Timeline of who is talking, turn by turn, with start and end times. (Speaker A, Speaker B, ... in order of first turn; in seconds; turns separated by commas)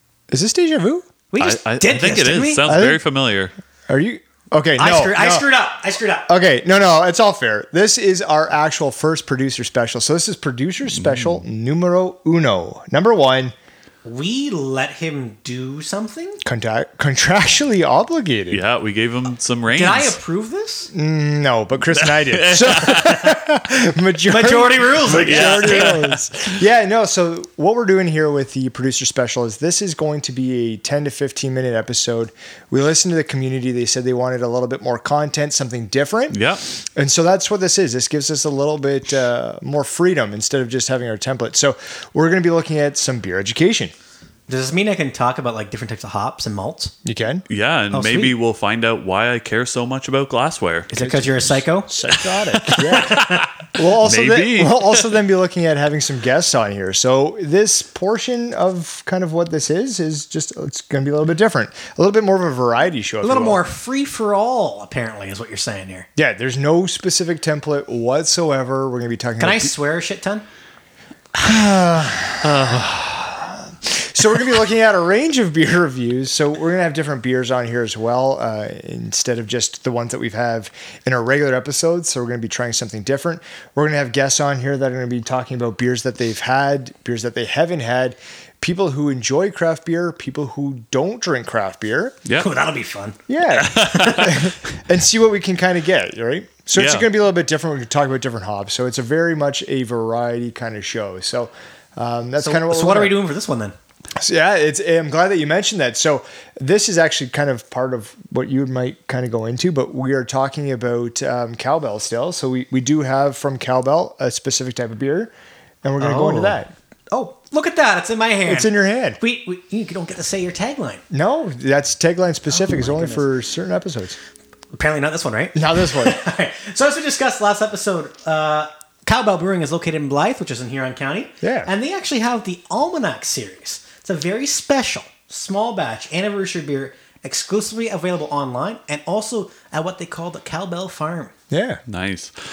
Speaker A: 0.3-1.0, Speaker B: 1.3-2.6, Speaker C: 1.4-3.5, Speaker A: 2.6-3.0, Speaker A: 3.9-5.5, Speaker B: 4.8-6.3, Speaker A: 6.3-13.5, Speaker C: 10.9-11.4, Speaker B: 14.0-16.4, Speaker A: 16.4-18.6, Speaker C: 18.5-20.2, Speaker B: 19.7-20.9, Speaker A: 20.9-43.9, Speaker C: 21.9-23.3, Speaker B: 24.3-26.0, Speaker C: 25.1-26.2, Speaker C: 36.3-36.6, Speaker B: 44.5-46.9, Speaker A: 47.0-47.5, Speaker C: 47.5-50.9, Speaker B: 47.9-48.4, Speaker B: 50.9-51.9, Speaker A: 50.9-63.6, Speaker C: 52.3-55.1, Speaker B: 52.9-53.5, Speaker B: 63.2-66.1, Speaker A: 66.2-69.7, Speaker B: 69.4-70.5, Speaker A: 71.4-72.7, Speaker C: 72.4-73.3, Speaker A: 73.7-92.2, Speaker B: 92.3-94.4, Speaker A: 93.3-103.2, Speaker C: 93.7-94.4, Speaker C: 96.7-97.1, Speaker B: 102.4-103.7, Speaker A: 104.2-115.3, Speaker A: 115.8-116.7, Speaker B: 116.0-121.0, Speaker A: 118.5-119.2, Speaker A: 121.1-124.2, Speaker B: 122.5-123.3, Speaker B: 124.7-141.3, Speaker A: 125.5-126.2, Speaker A: 131.4-131.7, Speaker A: 141.5-141.8, Speaker C: 141.9-142.3